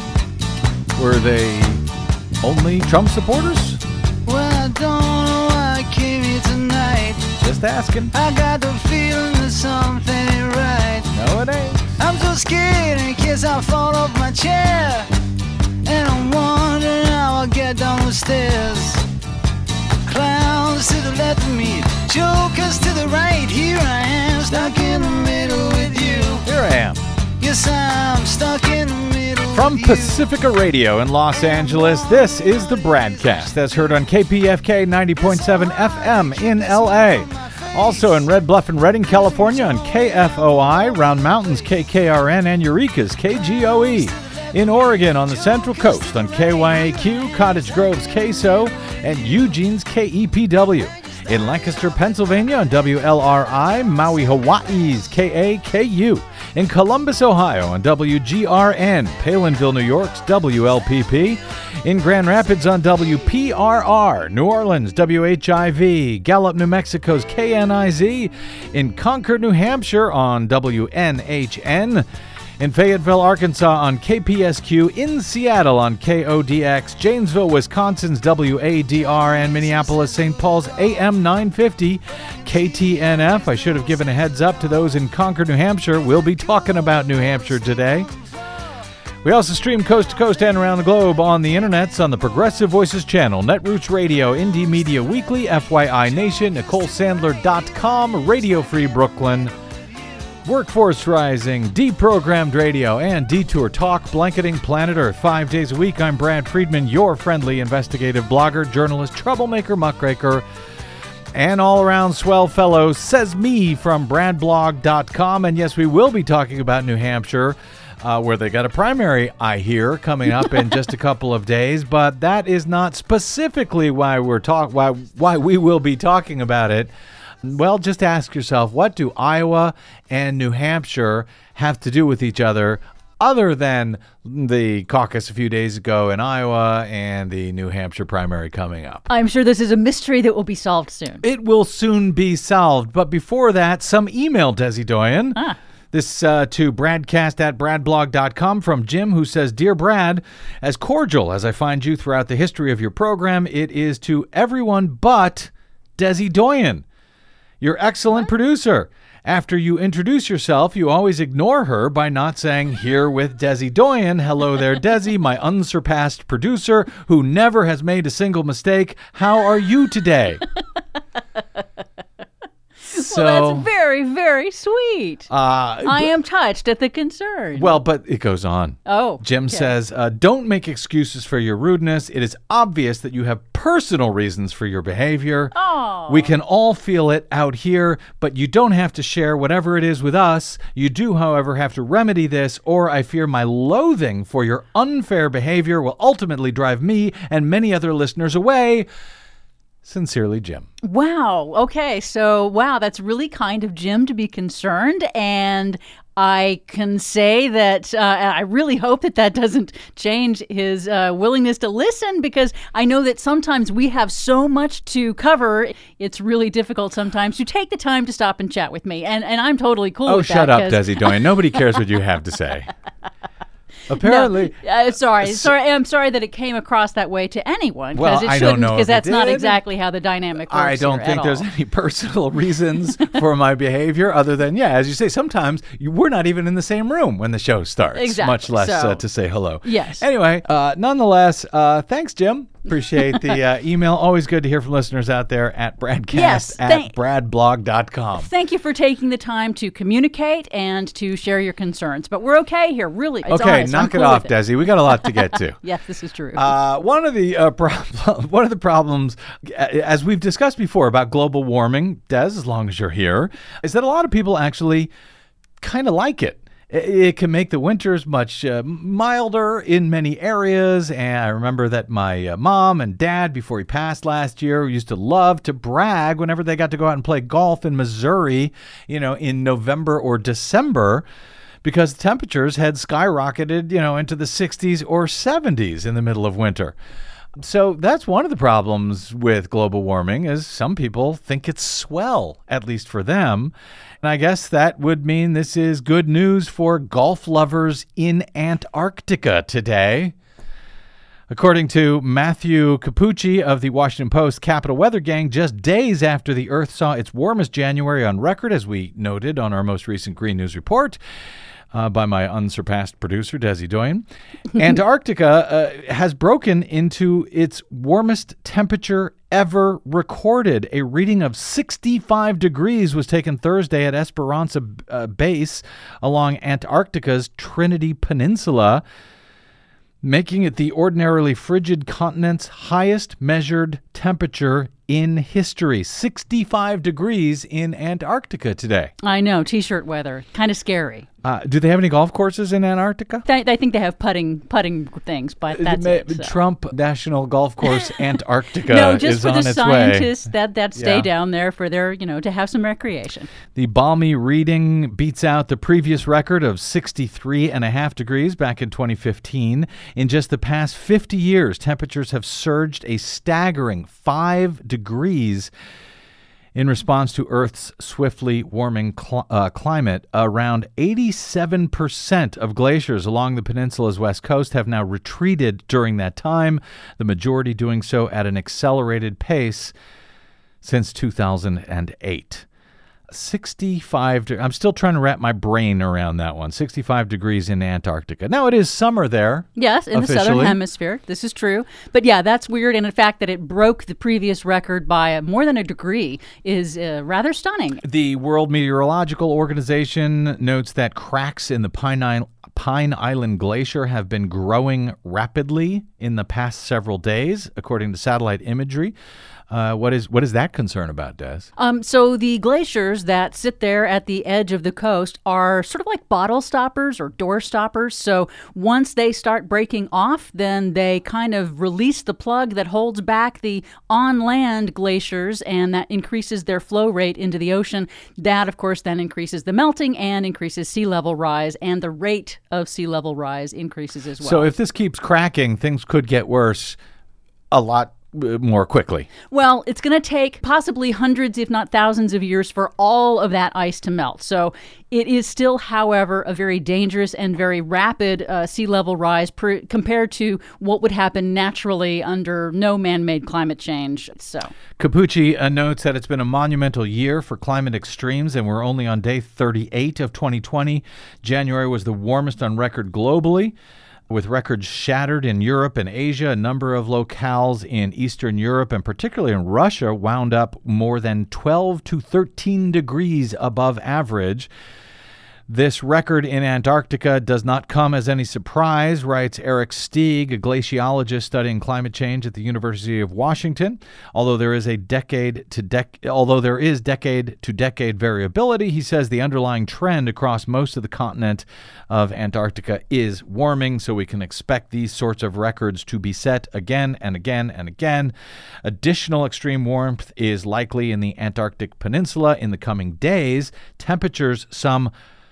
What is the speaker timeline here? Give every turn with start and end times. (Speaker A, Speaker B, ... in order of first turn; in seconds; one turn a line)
Speaker A: 0.9-1.8
Speaker A: 2.4-3.8
Speaker B: 4.2-7.3
Speaker A: 7.4-8.1
Speaker B: 8.1-11.1
Speaker A: 11.1-12.0
Speaker B: 12.0-15.1
Speaker B: 15.8-19.1
Speaker B: 20.0-26.4
Speaker A: 26.4-27.0
Speaker B: 27.4-30.2
Speaker A: 29.5-72.0
Speaker B: 31.3-33.8
Speaker B: 35.2-38.2
Speaker B: 39.1-40.6
Speaker B: 43.8-44.6
Speaker B: 45.5-46.6
Speaker A: 72.6-88.1
Speaker A: 89.2-99.5
Speaker A: 100.4-110.4
Speaker A: 111.3-126.9
Speaker A: 127.4-139.1
Speaker C: 139.1-141.2
Speaker A: 141.2-145.4
Speaker A: 145.9-156.8
Speaker A: 157.6-170.4
Speaker A: 172.9-173.7
Speaker C: 172.9-175.3
Speaker A: 175.3-176.1
Speaker C: 175.8-177.8
Speaker A: 177.5-185.5
Speaker C: 178.9-179.7
Speaker C: 185.5-186.3
Speaker A: 186.1-198.9
Speaker A: 199.8-200.7
Speaker C: 200.8-221.8
Speaker A: 220.1-222.7
Speaker A: 223.9-224.6
Speaker C: 224.0-231.5
Speaker A: 225.2-225.5
Speaker A: 227.9-229.6
Speaker A: 230.5-248.3
Speaker C: 237.9-239.0
Speaker C: 239.6-240.1
Speaker C: 246.1-246.9
Speaker C: 248.2-256.5
Speaker A: 253.3-255.6
Speaker A: 256.3-264.9
Speaker A: 265.6-281.0
Speaker A: 281.6-286.7
Speaker A: 287.4-300.1
Speaker A: 301.3-311.0
Speaker A: 311.7-328.8
Speaker A: 330.0-338.9
Speaker C: 339.0-341.1
Speaker A: 341.2-343.2
Speaker C: 343.3-346.3
Speaker A: 345.5-350.1
Speaker C: 348.6-353.3
Speaker A: 350.8-351.1
Speaker A: 353.5-365.5
Speaker A: 366.5-379.7
Speaker A: 380.6-382.4
Speaker A: 383.1-390.6
Speaker C: 389.6-397.8
Speaker A: 397.8-408.9
Speaker A: 409.5-411.5
Speaker C: 411.6-434.5
Speaker A: 434.2-436.8
Speaker A: 437.5-439.1
Speaker C: 439.3-454.5
Speaker A: 454.8-463.5
Speaker A: 464.1-474.5
Speaker A: 475.5-498.1
Speaker A: 498.6-504.9